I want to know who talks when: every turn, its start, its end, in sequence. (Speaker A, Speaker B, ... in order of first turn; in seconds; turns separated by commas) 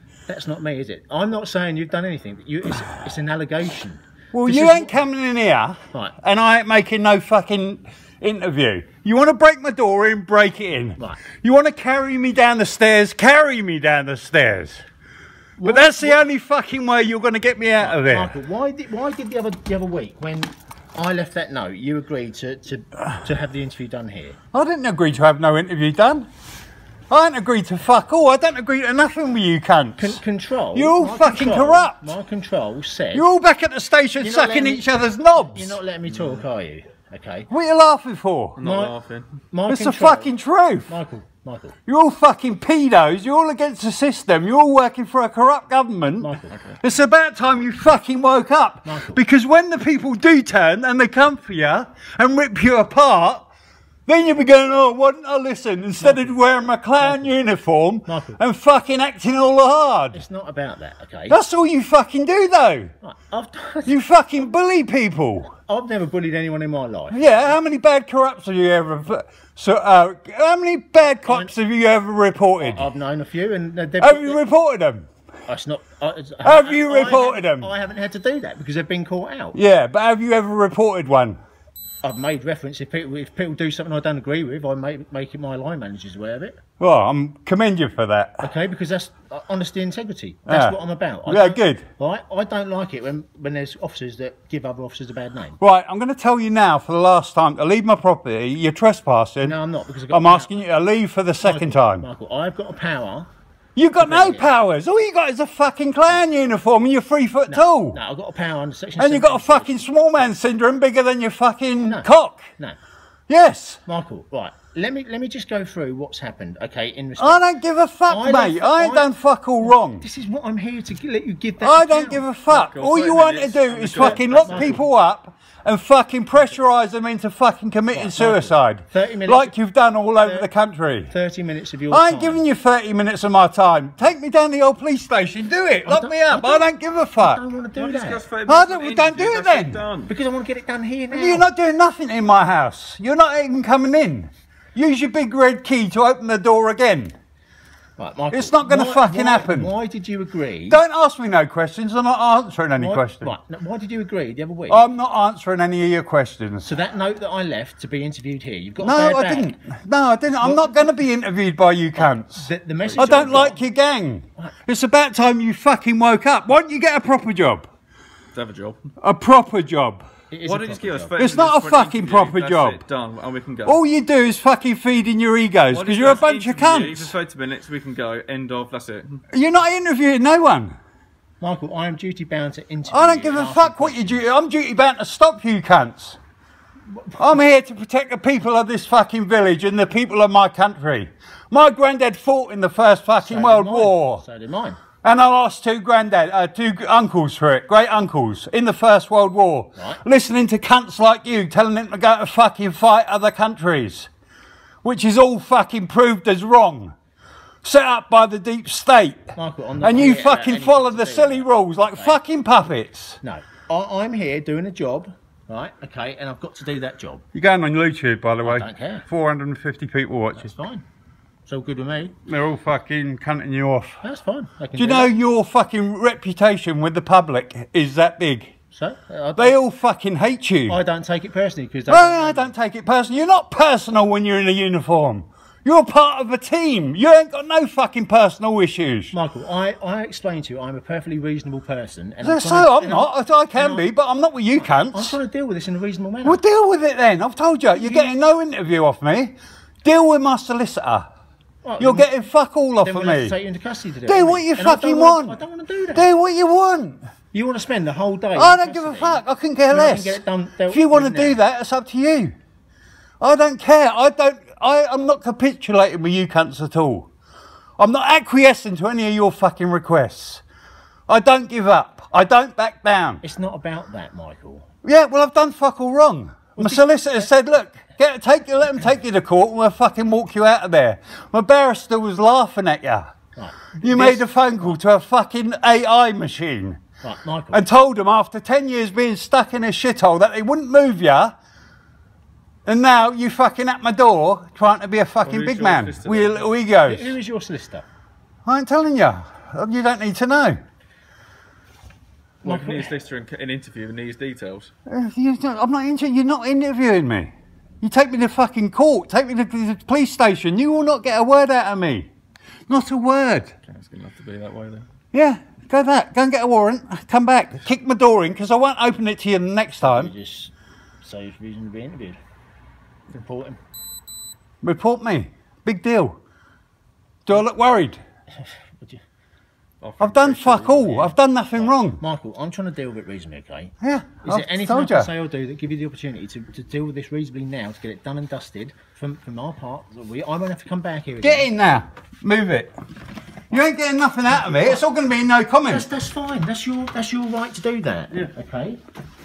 Speaker A: 0.3-5.0, Speaker B: 4.3-14.8, Speaker A: 15.6-16.2, Speaker B: 15.6-18.3, Speaker A: 17.8-24.4, Speaker B: 24.5-26.3, Speaker B: 27.1-30.2, Speaker A: 30.0-33.2, Speaker B: 30.7-32.1, Speaker B: 33.1-35.8, Speaker A: 34.2-37.5, Speaker B: 37.5-38.6, Speaker C: 38.6-39.3, Speaker A: 38.6-38.9, Speaker A: 39.5-40.3, Speaker B: 39.7-40.9, Speaker A: 40.9-41.8, Speaker B: 41.9-53.5, Speaker A: 46.2-46.7, Speaker A: 48.8-49.2, Speaker B: 54.1-60.2, Speaker A: 56.0-56.3, Speaker A: 57.0-57.3, Speaker A: 58.1-58.4, Speaker A: 60.1-61.4, Speaker B: 61.3-62.9, Speaker A: 63.0-63.9, Speaker B: 63.9-65.5, Speaker A: 65.5-67.5, Speaker B: 67.1-72.8, Speaker A: 71.2-71.5, Speaker A: 72.6-74.4, Speaker B: 74.0-75.1, Speaker A: 75.5-79.6, Speaker B: 76.4-77.7, Speaker B: 79.5-81.4, Speaker A: 82.0-86.6, Speaker B: 86.8-88.5, Speaker A: 88.4-95.6, Speaker B: 90.5-91.8, Speaker B: 95.6-99.5, Speaker A: 99.4-100.5, Speaker B: 100.1-102.0, Speaker A: 101.4-103.3, Speaker B: 103.8-108.0, Speaker A: 104.0-104.5, Speaker A: 107.5-109.9, Speaker B: 109.0-112.5, Speaker A: 111.8-112.8, Speaker B: 113.3-113.8, Speaker A: 113.8-117.4, Speaker B: 117.2-120.0, Speaker A: 118.1-119.1, Speaker A: 119.6-122.3, Speaker B: 121.6-131.1, Speaker C: 122.5-124.8, Speaker A: 123.9-124.8, Speaker A: 127.9-129.5, Speaker A: 130.2-130.5, Speaker A: 131.1-132.4, Speaker B: 131.9-137.4, Speaker A: 135.8-138.2, Speaker C: 137.8-140.1, Speaker B: 138.5-139.8, Speaker A: 140.1-141.5, Speaker B: 141.1-147.1, Speaker A: 148.0-150.8, Speaker B: 148.3-149.7, Speaker B: 150.7-153.3, Speaker A: 152.8-154.8, Speaker B: 154.7-156.7, Speaker A: 156.6-159.5, Speaker B: 158.8-162.4, Speaker A: 160.3-160.9, Speaker A: 162.0-163.6, Speaker C: 162.8-163.4, Speaker B: 163.0-167.7, Speaker C: 168.3-168.8, Speaker B: 169.0-170.0, Speaker A: 170.3-171.2, Speaker C: 170.4-173.8, Speaker B: 171.2-172.8, Speaker B: 173.6-177.1, Speaker C: 175.7-179.2, Speaker B: 179.3-180.7, Speaker A: 181.4-184.2, Speaker B: 182.9-186.2, Speaker A: 186.9-187.4, Speaker B: 187.2-194.2, Speaker A: 193.2-194.8, Speaker B: 195.0-204.1, Speaker B: 204.8-206.9, Speaker B: 207.6-213.2, Speaker A: 209.3-212.2, Speaker A: 213.2-217.2, Speaker B: 217.3-220.5, Speaker A: 218.4-219.1, Speaker A: 220.3-220.8, Speaker A: 221.5-222.2, Speaker B: 222.2-224.0, Speaker A: 224.0-225.1, Speaker B: 224.8-228.5, Speaker A: 228.7-229.6, Speaker B: 229.4-230.8, Speaker A: 230.7-232.5, Speaker B: 231.9-239.1, Speaker A: 239.1-243.9, Speaker B: 242.2-245.2, Speaker A: 244.6-246.4, Speaker B: 246.2-251.1, Speaker A: 247.7-248.1, Speaker A: 251.6-252.1, Speaker B: 251.8-253.3, Speaker A: 252.8-256.1, Speaker B: 254.1-255.3, Speaker B: 255.9-257.0, Speaker A: 257.3-261.4, Speaker B: 258.4-262.3, Speaker B: 263.2-267.1, Speaker B: 267.8-270.4, Speaker B: 271.1-273.2, Speaker A: 273.2-274.6, Speaker B: 274.8-283.1, Speaker A: 276.6-277.3, Speaker A: 283.4-284.8, Speaker B: 283.8-286.8, Speaker A: 287.0-287.6, Speaker B: 287.5-291.3, Speaker B: 292.6-297.1, Speaker C: 295.2-296.5, Speaker A: 296.8-297.8, Speaker B: 298.4-300.6, Speaker C: 302.4-304.7, Speaker A: 302.4-302.9, Speaker B: 304.9-312.1, Speaker B: 312.7-313.5, Speaker C: 313.7-314.9, Speaker B: 315.1-320.1, Speaker A: 319.8-322.2, Speaker A: 323.1-323.6, Speaker B: 324.6-326.2, Speaker B: 327.2-328.0, Speaker A: 328.4-329.0, Speaker C: 329.8-331.1, Speaker B: 330.0-332.0, Speaker A: 331.6-341.5, Speaker B: 333.8-335.1, Speaker B: 341.2-342.7, Speaker B: 343.5-345.8, Speaker A: 344.3-344.8, Speaker A: 345.7-348.8